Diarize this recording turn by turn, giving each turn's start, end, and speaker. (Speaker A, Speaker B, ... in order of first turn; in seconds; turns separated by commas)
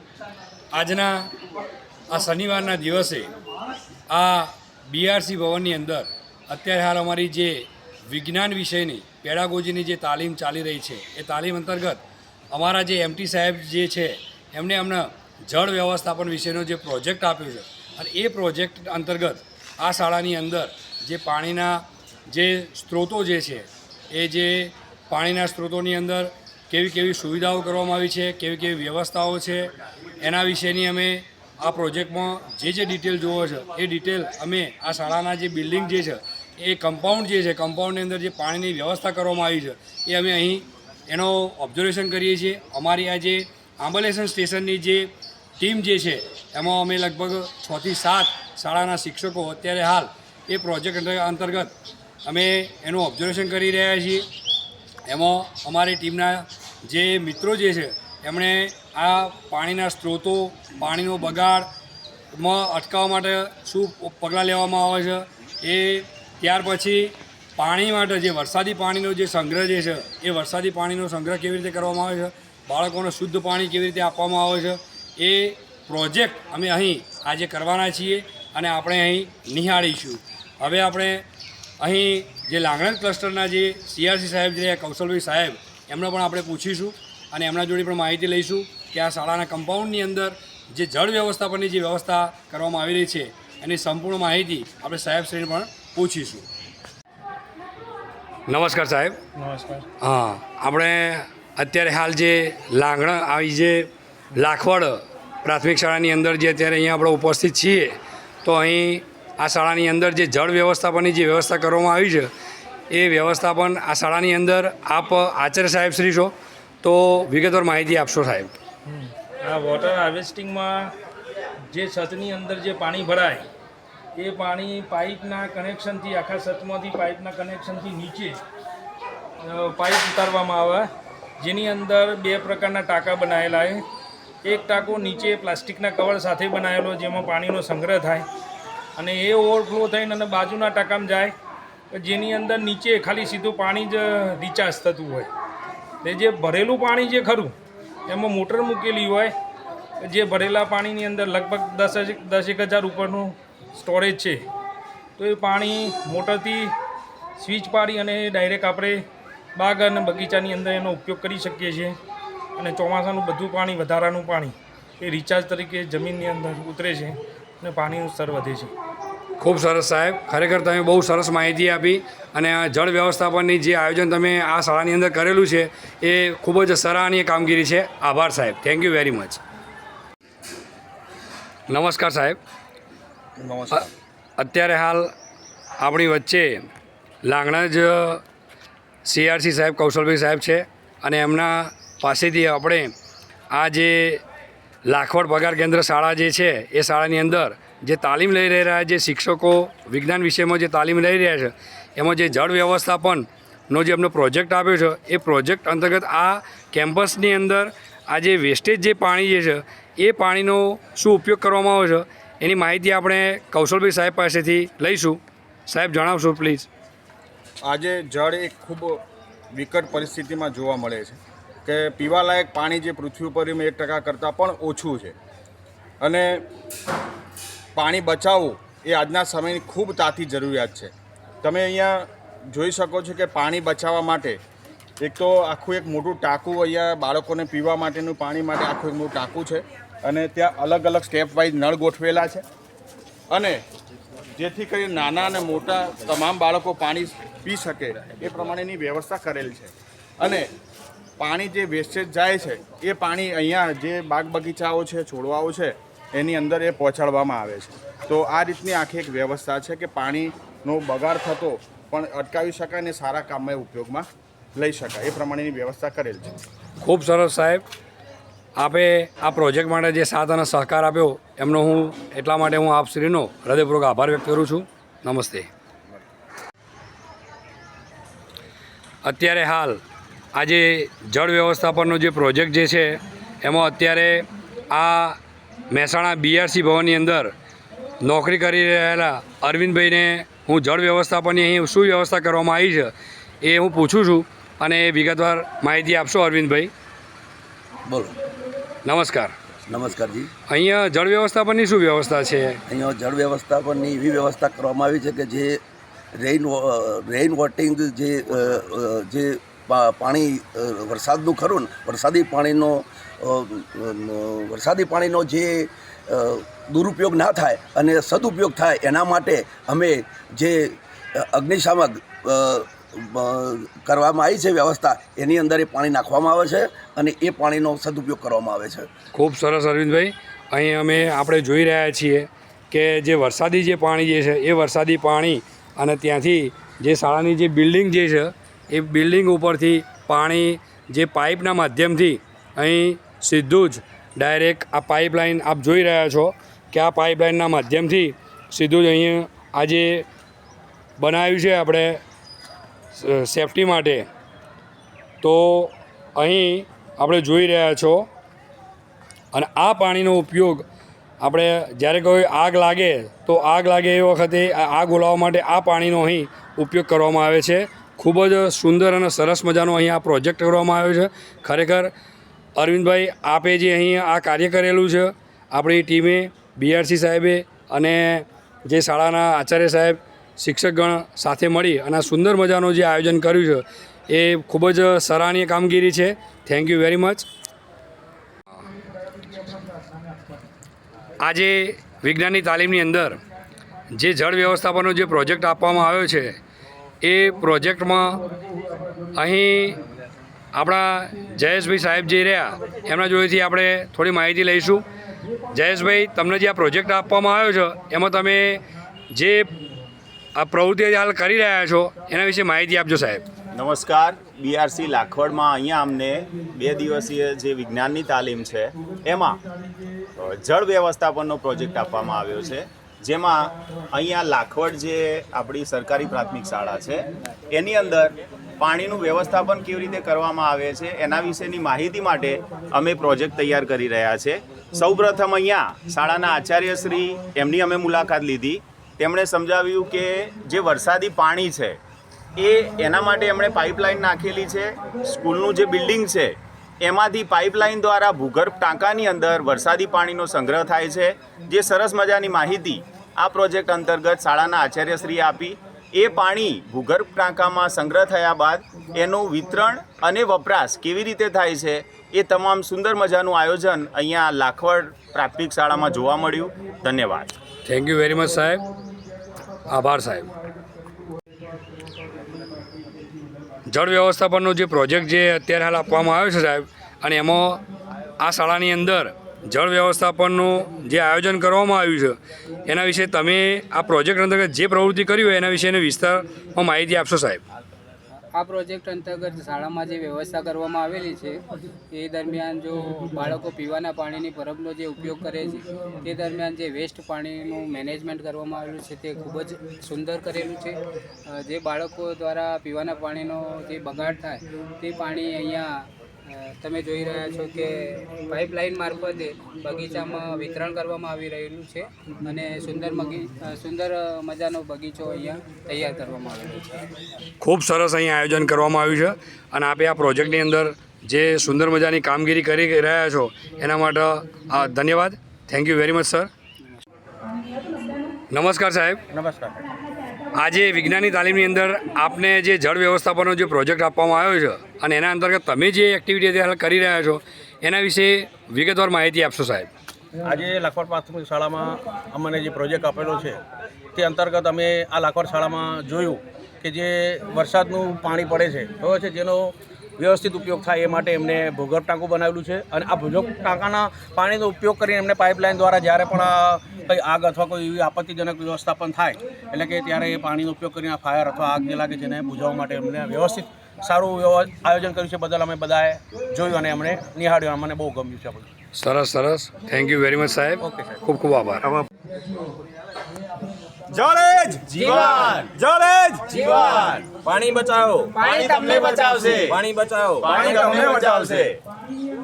Speaker A: 0.7-1.3, Speaker A: 2.1-3.3, Speaker A: 4.1-51.7, Speaker A: 52.2-54.3, Speaker A: 55.1-61.7, Speaker A: 62.3-81.2, Speaker A: 81.8-96.5, Speaker A: 98.5-99.2, Speaker B: 99.4-99.8, Speaker A: 100.0-112.3, Speaker A: 112.9-118.5, Speaker B: 118.9-120.9, Speaker B: 121.7-123.5, Speaker B: 124.2-128.4, Speaker B: 129.4-130.9, Speaker B: 131.4-133.8, Speaker B: 134.4-138.3, Speaker B: 139.0-141.3, Speaker B: 141.9-145.3, Speaker B: 146.0-147.6, Speaker B: 148.1-149.3, Speaker B: 150.0-154.4, Speaker B: 155.2-156.7, Speaker B: 157.4-159.0, Speaker B: 159.6-162.0, Speaker B: 162.6-168.7, Speaker A: 169.4-179.4, Speaker A: 181.7-182.4, Speaker C: 183.4-183.9, Speaker A: 184.4-185.1, Speaker A: 185.8-186.6, Speaker A: 187.2-188.2, Speaker A: 189.1-192.9, Speaker A: 193.5-194.2, Speaker A: 194.8-216.7, Speaker C: 217.7-219.0, Speaker C: 219.5-225.2, Speaker C: 226.0-226.4, Speaker C: 227.8-230.9, Speaker C: 231.4-234.4, Speaker C: 235.0-242.4, Speaker C: 243.3-243.6, Speaker C: 244.4-250.5, Speaker C: 251.2-266.3, Speaker A: 266.8-267.6, Speaker A: 268.6-275.5, Speaker A: 279.0-279.8, Speaker A: 280.3-285.2, Speaker A: 285.7-287.3, Speaker A: 288.0-296.7, Speaker D: 297.9-298.1, Speaker A: 298.9-299.4, Speaker D: 299.7-300.3, Speaker A: 300.5-302.6, Speaker D: 302.7-305.6, Speaker D: 306.1-328.9, Speaker A: 329.1-350.1, Speaker A: 351.0-352.0, Speaker A: 352.9-354.1, Speaker A: 355.2-358.1, Speaker A: 359.3-360.6, Speaker A: 361.2-371.9, Speaker A: 372.6-387.3, Speaker A: 391.2-393.2, Speaker A: 393.9-396.4, Speaker A: 397.0-398.2, Speaker A: 399.1-399.8, Speaker A: 400.5-404.9, Speaker A: 405.5-409.5, Speaker A: 410.4-413.2, Speaker E: 413.6-419.4, Speaker E: 420.2-441.8, Speaker E: 442.4-467.3, Speaker A: 467.6-468.6, Speaker A: 469.7-470.3, Speaker A: 473.7-477.6, Speaker A: 478.2-487.4, Speaker F: 488.3-516.8, Speaker A: 517.4-526.3, Speaker A: 528.3-529.0, Speaker G: 529.1-529.6, Speaker A: 530.4-539.7, Speaker G: 540.2-543.4, Speaker G: 544.0-568.5, Speaker A: 568.8-571.7, Speaker G: 570.6-571.0, Speaker E: 573.9-579.7, Speaker G: 575.8-576.3, Speaker G: 577.3-578.7, Speaker G: 579.5-581.5, Speaker E: 580.2-581.6